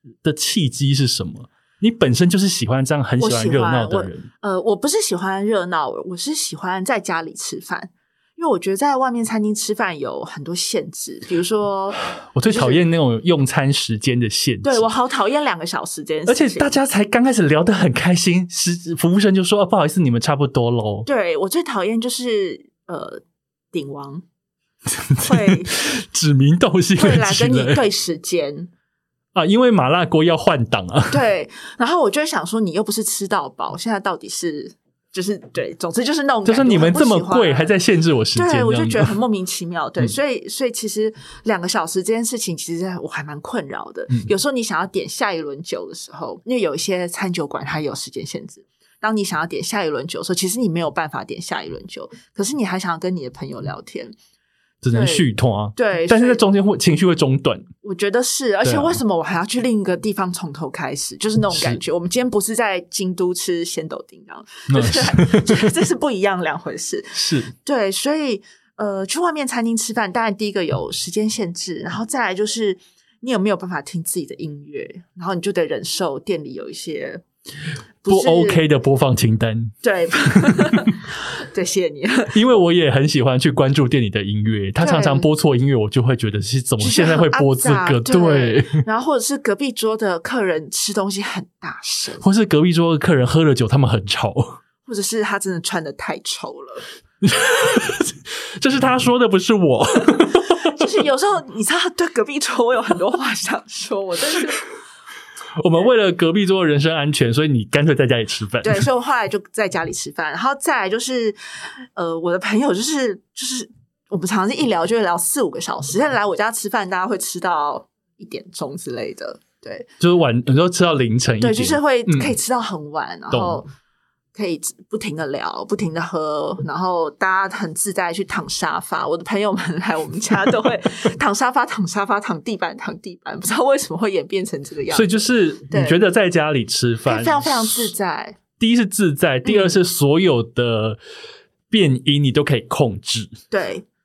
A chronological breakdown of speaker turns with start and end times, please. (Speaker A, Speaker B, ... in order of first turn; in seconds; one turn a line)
Speaker A: 0.2-4.3
Speaker B: 3.2-12.8
Speaker A: 12.3-14.9
Speaker B: 14.6-16.7
Speaker A: 16.2-21.1
Speaker B: 21.1-24.2
Speaker A: 24.9-27.8
Speaker B: 25.2-25.7
Speaker B: 27.0-28.7
Speaker A: 29.3-31.2
Speaker B: 31.1-37.7
Speaker A: 36.4-39.1
Speaker B: 38.3-54.1
Speaker A: 54.8-57.7
Speaker B: 54.9-56.4
Speaker B: 57.8-77.2
Speaker A: 58.6-59.0
Speaker A: 61.5-61.8
Speaker A: 64.7-65.7
Speaker A: 67.1-67.5
Speaker B: 78.0-78.6
Speaker A: 78.1-79.7
Speaker B: 79.8-82.4
Speaker A: 80.3-80.9
Speaker A: 82.3-88.8
Speaker B: 84.8-85.3
Speaker B: 86.8-92.2
Speaker A: 92.2-94.6
Speaker B: 94.8-96.8
Speaker A: 97.2-100.8
Speaker B: 100.6-104.6
Speaker A: 105.6-108.8
Speaker B: 108.6-119.9
Speaker A: 120.0-122.3
Speaker B: 121.4-123.7
Speaker A: 123.3-123.6
Speaker B: 124.3-136.0
Speaker A: 134.9-137.9
Speaker B: 137.1-138.4
Speaker A: 138.6-141.0
Speaker B: 139.4-139.8
Speaker A: 141.7-143.4
Speaker B: 143.5-143.8